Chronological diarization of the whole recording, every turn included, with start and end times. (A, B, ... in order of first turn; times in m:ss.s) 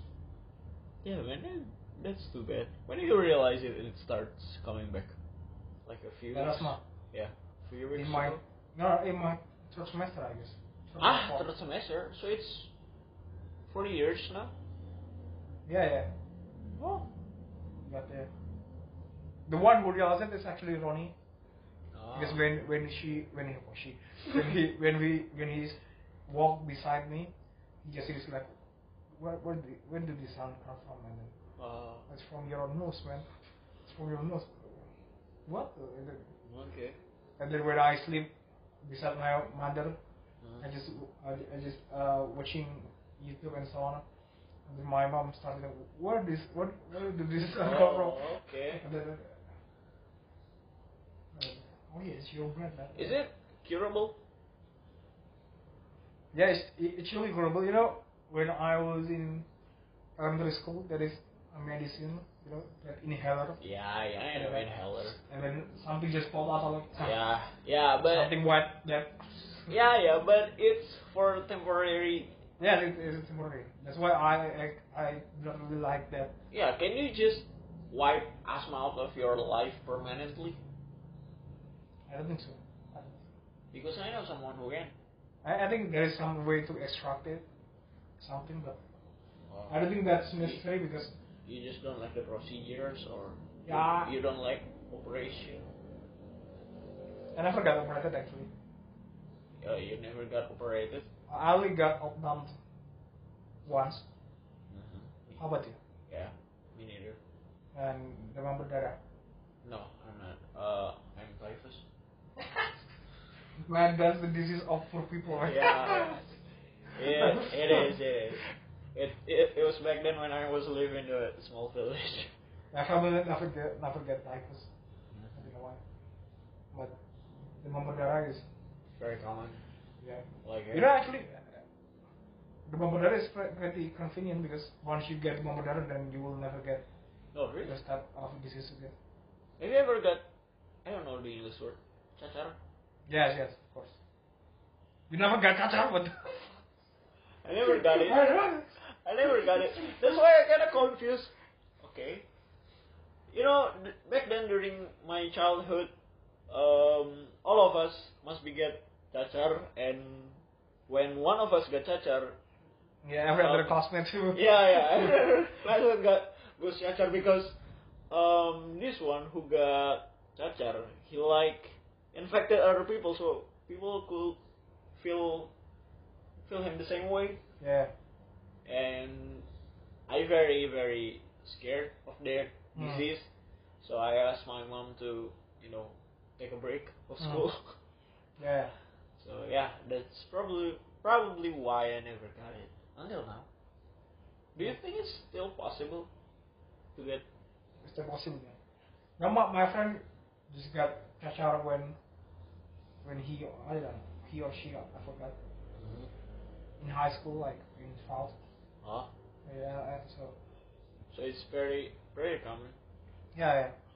0:01.0-0:05.2 A
0:05.8-0:08.4 A
0:06.3-0:06.8 B
0:07.9-0:11.5 B
0:11.0-0:12.7 A
0:13.7-0:14.5 A
0:15.6-0:16.1 B
0:16.8-0:17.1 A
0:17.8-0:18.3 B
0:19.5-0:21.2 B
0:21.9-0:22.4 A
0:22.1-0:27.3 B
0:27.8-0:28.5 B
0:29.2-0:31.3 B
0:31.6-0:32.1 A
0:32.1-0:33.3 B
0:33.8-0:34.8 B
0:35.4-0:36.3 B
0:36.4-0:37.0 A
0:37.4-0:40.0 B
0:40.4-0:40.6 A
0:40.6-0:44.0 B
0:44.7-0:49.4 B
0:47.6-0:48.8 A
0:51.3-0:53.2 B
0:52.9-0:54.2 A
0:56.3-0:59.5 B
1:00.2-1:03.6 B
1:03.6-1:05.2 A
1:04.3-1:07.2 B
1:07.0-1:08.3 A
1:08.0-1:09.7 B
1:09.7-1:12.4 A
1:12.6-1:16.4 B
1:16.5-1:20.6 A
1:22.1-1:23.2 B
1:23.7-1:24.9 A
1:25.4-1:27.4 B
1:28.2-1:28.9 B
1:29.5-1:29.8 A
1:29.7-1:31.1 B
1:30.4-1:30.6 A
1:31.4-1:35.7 A
1:33.6-1:34.1 B
1:37.3-1:38.5 B
1:39.6-1:41.1 A
1:41.3-1:42.6 B
1:43.6-1:44.0 B
1:44.7-1:45.4 A
1:45.4-1:45.8 B
1:46.1-1:47.2 A
1:47.7-1:49.0 B
1:49.6-1:51.8 A
1:53.6-1:56.2 B
1:55.3-2:02.3 A
1:56.9-1:57.9 B
2:02.7-2:04.7 B
2:05.3-2:05.8 B
2:07.6-2:08.4 B
2:09.0-2:09.6 A
2:10.0-2:11.6 B
2:10.4-2:10.9 A
2:12.6-2:16.8 B
2:17.3-2:17.8 A
2:17.6-2:18.9 B
2:19.6-2:20.2 A
2:20.8-2:22.6 A
2:23.1-2:24.0 B
2:25.1-2:26.5 B
2:27.4-2:32.3 A
2:27.7-2:28.7 B
2:33.3-2:35.9 A
2:36.5-2:42.4 A
2:43.0-2:45.2 B
2:43.4-2:43.7 A
2:44.3-2:47.6 A
2:48.1-2:54.4 A
2:54.9-2:55.5 A
2:56.4-2:57.4 A
2:57.6-2:57.9 B
2:58.6-2:59.5 A
3:00.1-3:03.3 A
3:02.7-3:03.1 B
3:03.8-3:07.8 A
3:07.2-3:07.5 B
3:08.4-3:08.7 B
3:09.2-3:13.5 A
3:14.5-3:16.1 A
3:16.9-3:17.2 A
3:17.8-3:18.6 B
3:19.2-3:22.0 B
3:23.0-3:25.4 B
3:25.8-3:26.1 A
3:26.8-3:28.4 B
3:28.8-3:29.1 A
3:29.4-3:30.4 B
3:31.1-3:32.8 A
3:33.3-3:33.8 B